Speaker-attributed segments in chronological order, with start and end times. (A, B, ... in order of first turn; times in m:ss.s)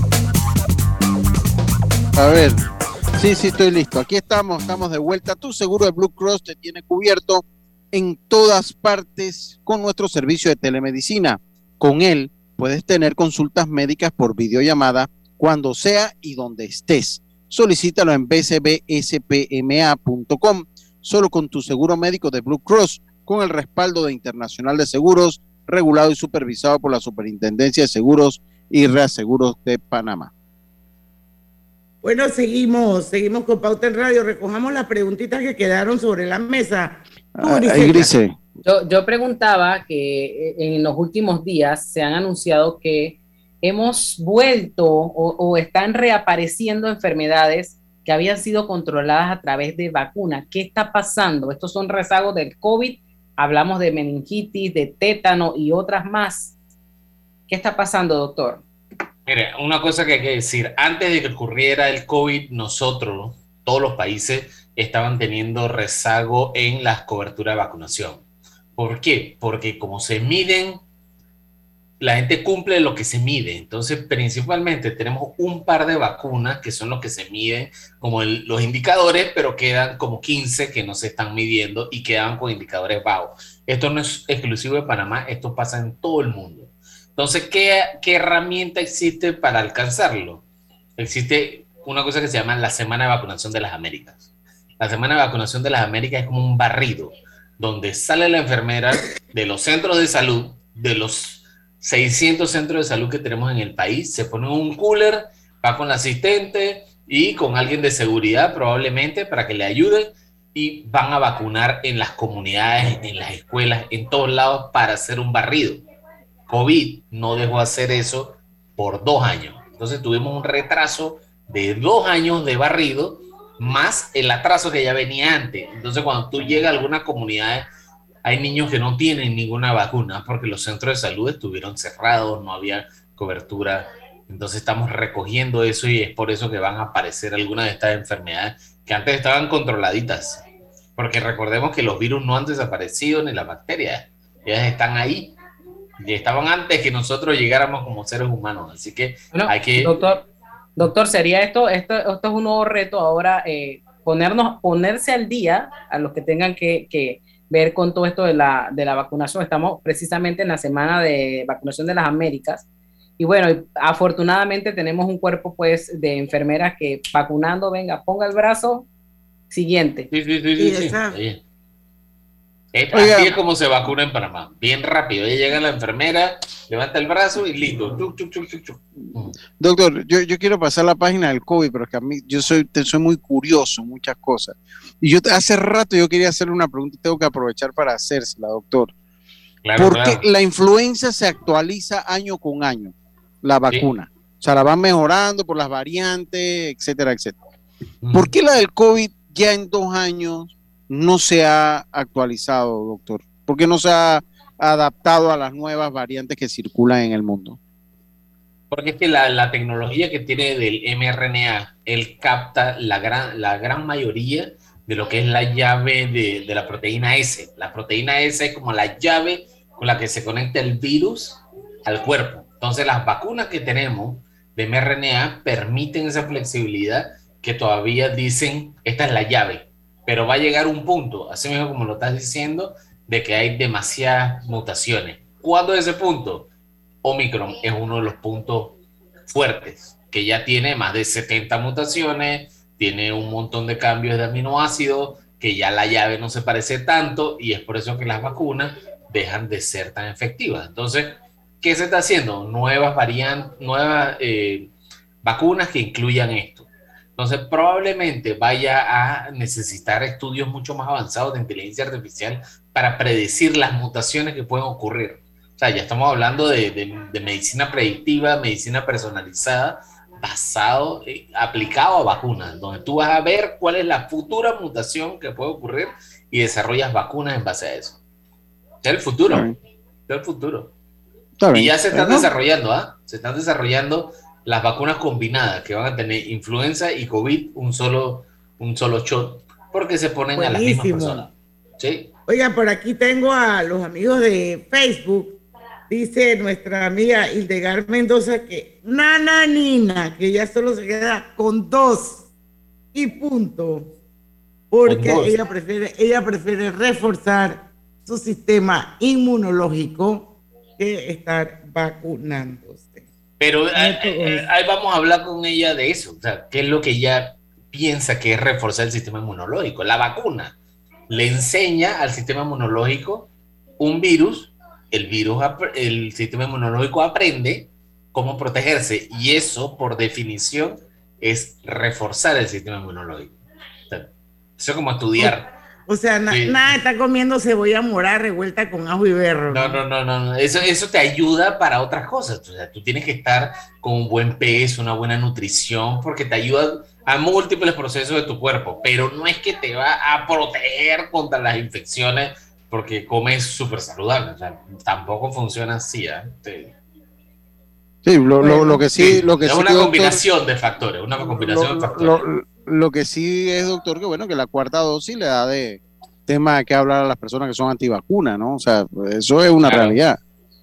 0:02.2-0:02.6 A
0:03.2-0:30.3 A
0:32.0-0:38.1 B
0:37.4-0:38.3 A
0:38.6-0:56.5 C
0:57.5-0:58.6 C
0:59.3-1:08.2 D
1:08.8-1:10.8 D
1:12.0-1:30.4 D
1:31.0-1:34.3 D
1:34.8-1:55.8 D
1:56.5-2:07.6 D
2:08.2-2:20.4 D
2:21.0-2:25.3 D
2:26.0-2:30.0 D
2:29.3-2:30.2 C
2:30.8-2:42.6 C
2:43.2-2:48.8 C
2:49.5-2:50.1 C
2:50.1-2:51.4 D
2:50.6-2:51.2 B
2:52.7-2:59.3 D
2:52.9-2:53.3 A
2:59.6-3:08.9 A
3:09.6-3:10.2 D
3:09.8-3:17.4 A
3:18.0-3:18.3 D
3:18.1-3:27.6 A
3:28.7-3:56.5 D
3:57.0-3:58.7 D
3:59.3-4:14.7 D
4:15.2-4:38.0 D
4:38.8-4:39.5 D
4:40.1-4:40.7 D
4:41.4-4:42.3 A
4:41.5-4:52.1 D
4:50.3-4:51.2 B
4:52.3-5:02.2 B
5:02.9-5:03.9 B
5:04.7-5:13.0 B
5:04.8-5:05.4 D
5:13.4-5:20.5 D
5:13.7-5:14.4 B
5:21.1-5:23.3 D
5:23.8-5:33.3 D
5:33.9-5:35.5 D
5:35.9-5:39.8 B
5:36.3-5:36.7 D
5:39.5-5:56.7 D
5:58.0-6:00.2 A
5:58.4-6:02.2 D
6:01.3-6:10.2 A
6:09.6-6:10.0 D